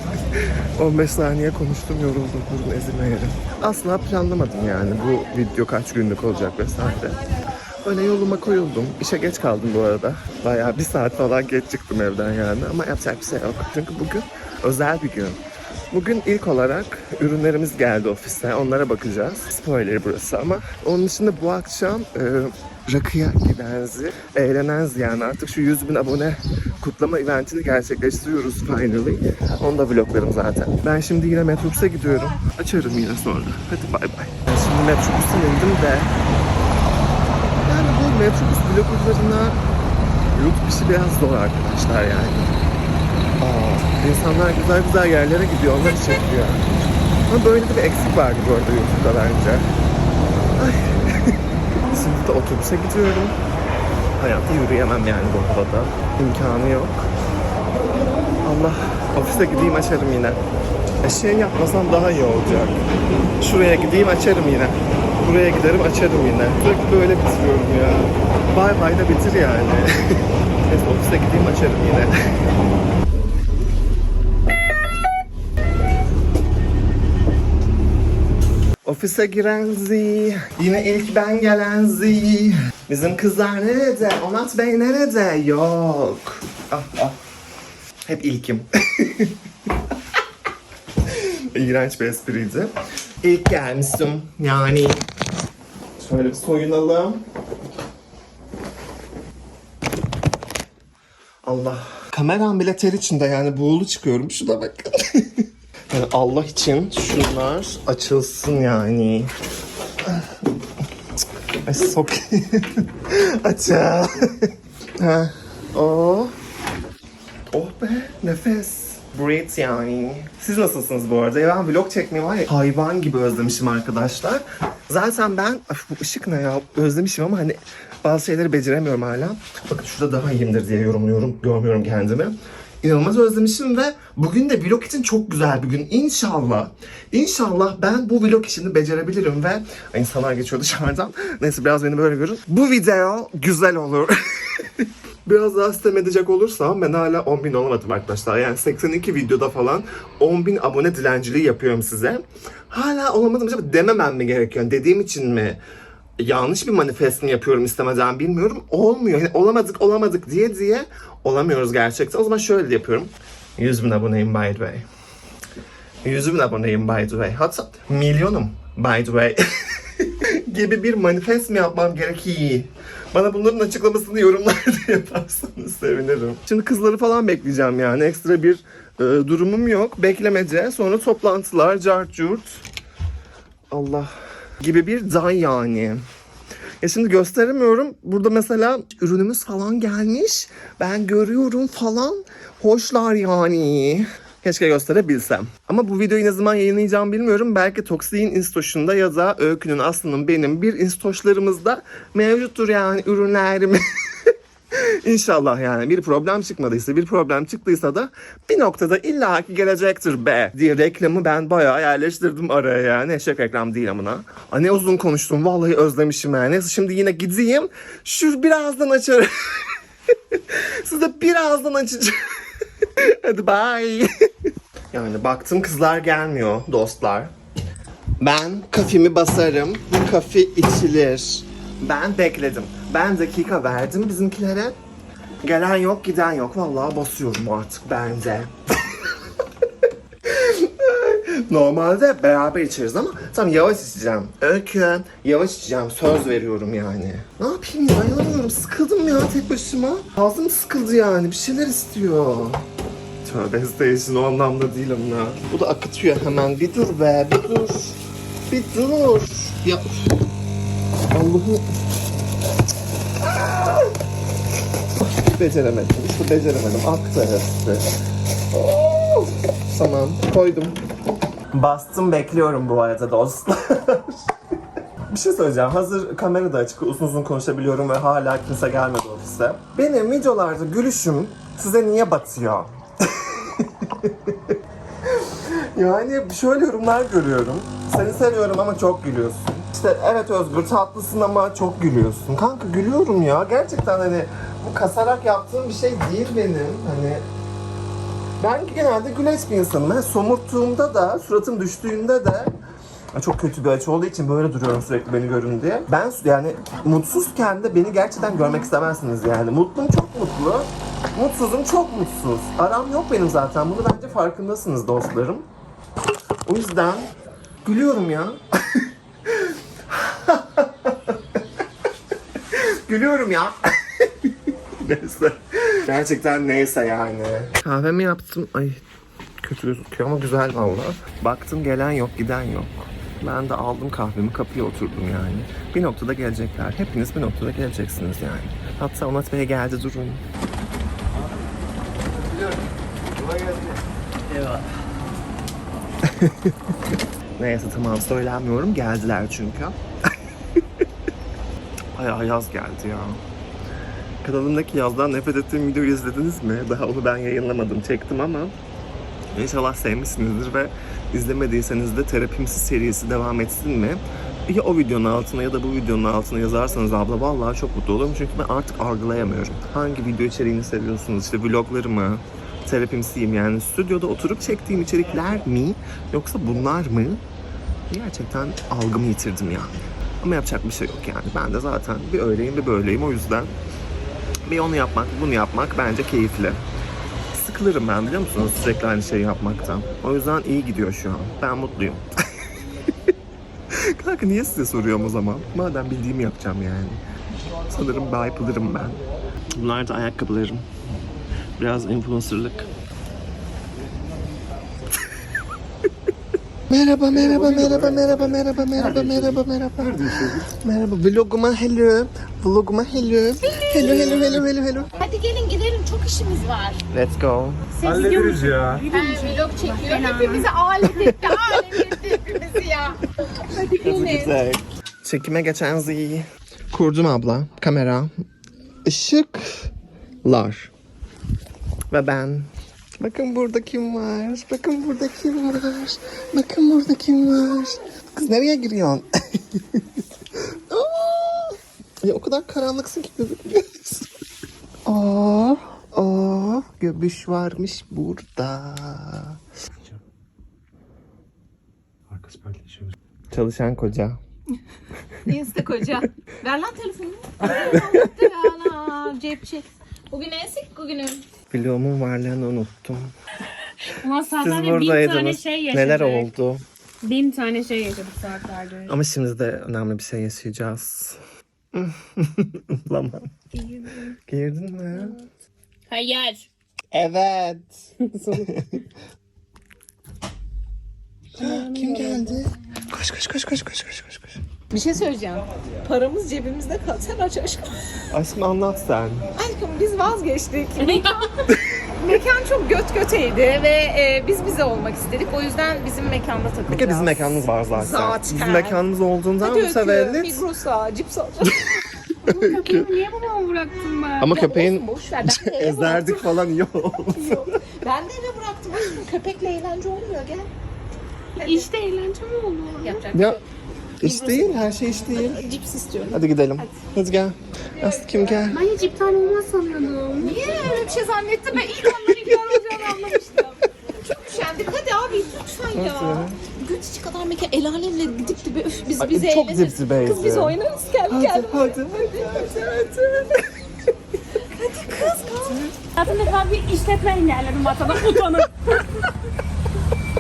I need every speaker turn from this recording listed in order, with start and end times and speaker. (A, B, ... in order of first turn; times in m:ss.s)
0:00.4-0:07.2 A
0:07.8-0:15.4 A
0:15.9-0:36.1 A
0:37.7-0:39.6 A
0:40.3-0:42.6 A
0:43.4-0:46.7 A
0:47.3-0:49.7 A
0:50.6-0:53.4 A
0:54.2-0:57.1 A
0:58.4-1:00.4 A
1:01.0-1:02.8 A
1:03.4-1:12.1 A
1:18.8-1:27.2 A
1:28.0-1:29.4 A
1:31.1-1:35.0 A
1:36.0-1:37.2 A
1:41.4-1:49.3 A
1:51.6-1:56.4 A
1:57.5-2:35.6 A
2:36.2-2:44.9 A
2:46.0-3:02.6 A
3:03.7-3:06.0 A
3:06.8-3:44.1 A
3:44.9-3:47.3 A
3:48.2-3:54.8 A
3:55.4-3:59.0 A
4:00.2-4:12.6 A
4:13.2-4:20.2 A
4:21.1-4:21.7 A
4:23.2-4:23.9 A
4:25.0-4:27.9 A
4:28.5-4:30.8 A
4:31.5-4:34.2 A
4:35.1-4:57.2 A
4:58.4-5:02.5 A
5:03.1-5:15.4 A
5:16.5-5:17.1 A
5:17.6-5:21.4 A
5:22.5-5:28.8 A
5:29.4-5:40.2 A
5:43.2-5:43.7 B
5:44.3-5:44.6 B
5:46.0-5:46.5 A
5:47.4-5:49.8 A
5:52.0-5:53.2 A
5:54.2-5:58.6 A
5:59.3-6:17.2 A
6:17.9-6:23.5 A
6:24.5-6:26.6 A
6:27.3-6:32.1 A
6:33.7-6:37.0 A
6:37.7-6:39.0 A
6:39.6-6:40.6 A
6:41.6-6:42.7 A
6:46.7-6:54.9 A
6:47.1-6:50.5 B
6:53.4-6:54.4 C
6:55.0-6:56.8 C
6:56.9-6:57.7 A
6:57.8-7:00.5 D
6:57.8-6:58.8 B
6:58.9-7:04.4 C
7:01.0-7:02.0 A
7:03.7-7:08.1 A
7:08.8-7:09.7 A
7:10.2-7:10.7 A
7:11.9-7:20.0 A
7:20.7-7:24.1 A
7:24.9-7:29.4 A
7:32.1-7:33.0 B
7:33.3-7:34.2 A
7:35.2-7:41.3 C
7:37.6-7:38.1 A
7:41.5-7:43.1 A
7:44.0-7:46.3 D
7:44.4-7:46.6 A
7:47.0-7:48.9 D
7:48.9-7:51.2 A
7:51.7-7:53.3 A
7:53.5-7:54.1 D
7:54.3-7:55.2 A
7:55.9-7:56.5 C
7:56.9-7:57.7 A
7:58.0-7:58.5 D
7:58.3-7:58.8 A
8:01.4-8:02.4 D
8:01.4-8:04.4 A
8:04.7-8:08.0 C
8:08.1-8:09.3 A
8:09.4-8:11.4 C
8:10.8-8:11.3 D
8:12.0-8:18.8 C
8:16.7-8:20.4 A
8:19.4-8:21.7 C
8:21.5-8:23.0 A
8:22.3-8:24.3 D
8:24.2-8:27.6 A
8:24.2-8:26.3 C
8:27.1-8:30.5 C
8:31.4-8:31.7 C
8:31.4-8:33.0 D
8:32.8-8:33.4 C
8:33.1-8:33.4 A
8:34.0-8:35.4 A
8:34.0-8:36.8 C
8:36.1-8:38.6 A
8:38.5-8:40.4 D
8:40.2-8:53.3 C
8:41.8-8:43.2 A
8:45.7-8:46.4 A
8:49.0-8:50.6 A
8:51.1-8:53.4 A
8:54.3-8:55.6 C
8:56.0-8:58.8 D